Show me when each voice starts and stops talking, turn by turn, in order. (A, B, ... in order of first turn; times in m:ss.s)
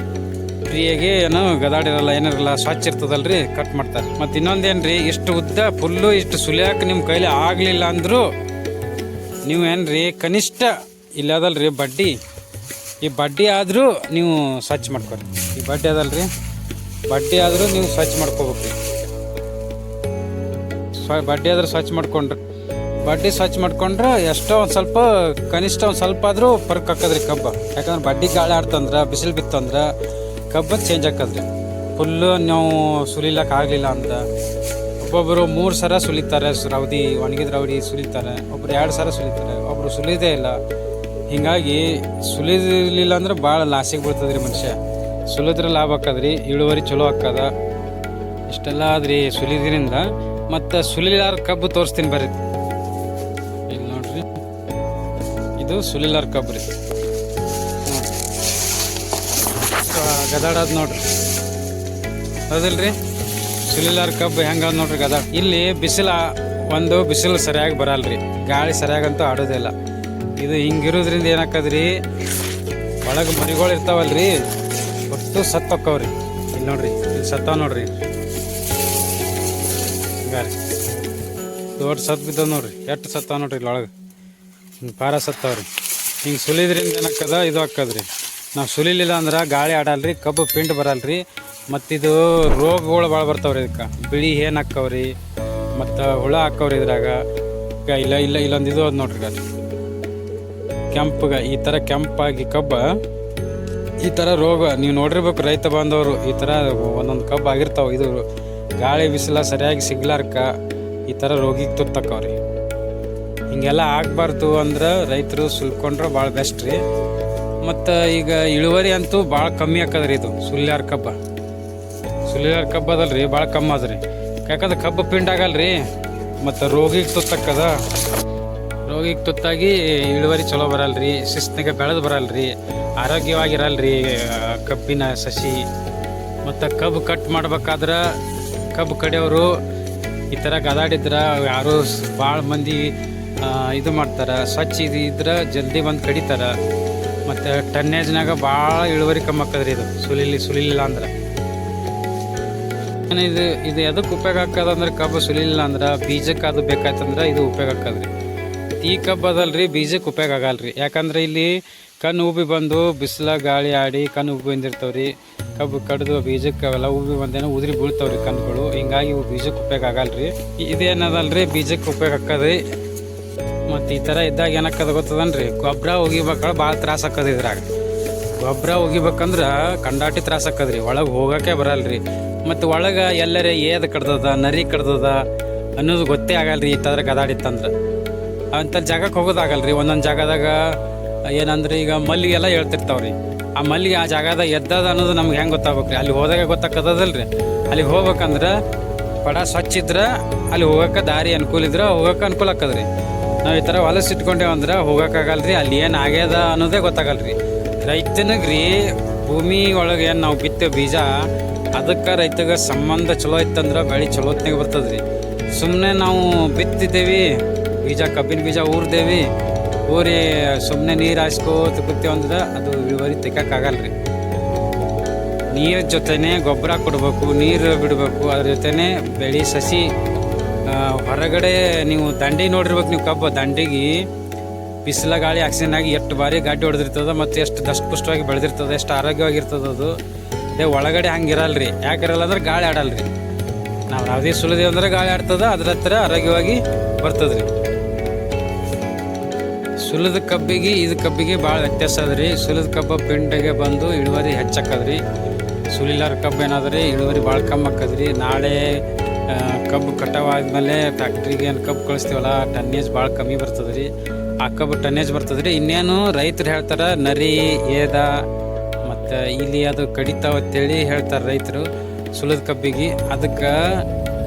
0:00.6-0:08.2 A
0:09.4-0:12.1 A
0:13.0-0:16.3 A
0:17.1-0:18.8 A
0:21.0-0:22.4 A
0:23.0-0:29.9 A
0:30.5-0:31.4 A
0:32.0-0:34.2 A
0:35.0-0:40.6 A
0:41.3-0:44.8 A
0:45.3-0:47.5 A
0:48.5-0:52.4 A
0:53.7-0:54.4 A
0:55.6-0:56.6 A
0:59.7-1:01.0 A
1:02.5-1:03.0 A
1:03.7-1:09.7 A
1:10.4-1:12.0 A
1:13.0-1:14.4 A
1:15.1-1:18.0 A
1:20.2-1:20.5 A
1:21.8-1:23.9 A
1:24.8-1:25.7 A
1:26.2-1:35.1 A
1:35.8-1:37.2 A
1:37.8-1:39.4 A
1:40.9-1:43.0 A
1:44.0-1:48.2 A
1:48.8-1:50.5 A
1:51.1-1:52.4 A
1:53.5-1:56.8 A
1:57.6-2:01.2 A
2:02.3-2:05.8 A
2:06.4-2:07.8 A
2:08.8-2:15.6 A
2:16.4-2:18.2 A
2:18.7-2:19.6 A
2:20.3-2:26.5 A
2:27.2-2:31.1 A
2:33.1-2:38.1 A
2:38.8-2:52.6 A
2:53.7-2:57.7 A
2:58.4-3:05.2 A
3:05.8-3:07.7 A
3:08.5-3:18.6 A
3:19.2-3:22.9 A
3:23.4-3:35.0 A
3:35.5-3:39.3 A
3:39.9-3:43.9 A
3:45.5-3:49.9 A
3:50.6-3:54.0 A
3:54.8-3:59.9 A
4:00.5-4:03.1 A
4:03.9-4:07.5 A
4:09.8-4:15.0 A
4:15.7-4:23.9 A
4:24.4-4:28.2 A
4:28.8-4:33.8 A